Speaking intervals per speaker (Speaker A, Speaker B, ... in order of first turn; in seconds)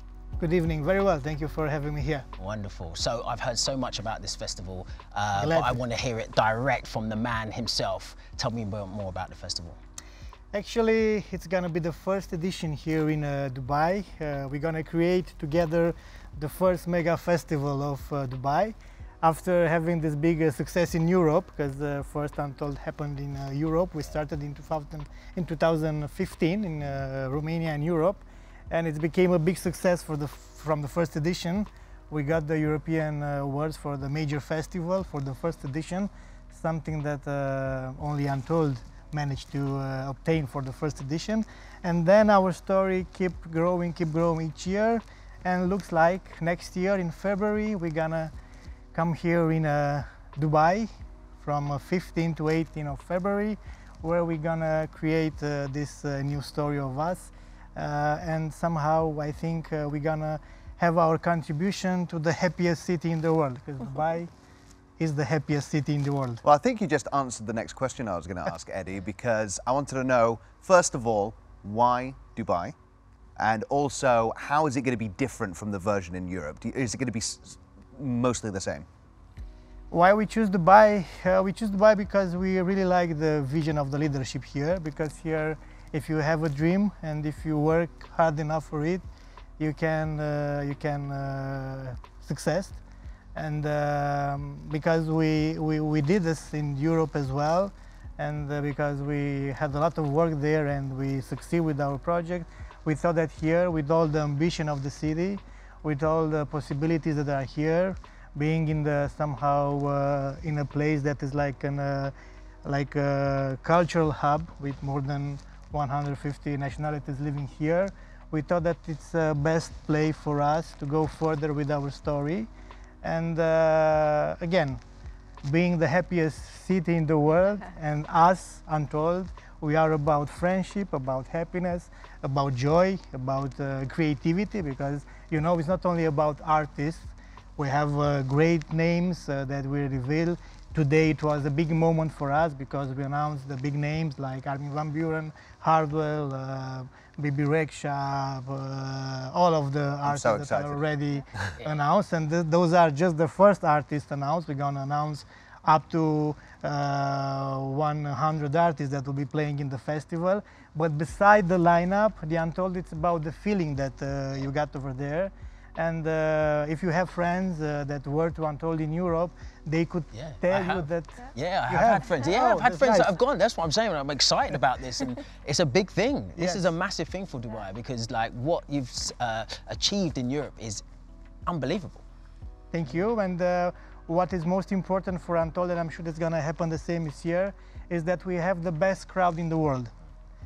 Speaker A: 0.4-2.2, 5.3-5.8, 10.5-48.3, 48.9-64.3, 65.0-66.4, 79.9-89.0, 89.6-92.8, 93.3-112.1, 112.6-122.5, 123.0-124.8, 125.4-173.1, 176.3-176.7, 182.7-189.9
Speaker B: 2.4-9.8, 170.1-180.8, 181.4-182.0
Speaker C: 66.4-72.7, 73.4-78.8, 150.0-150.8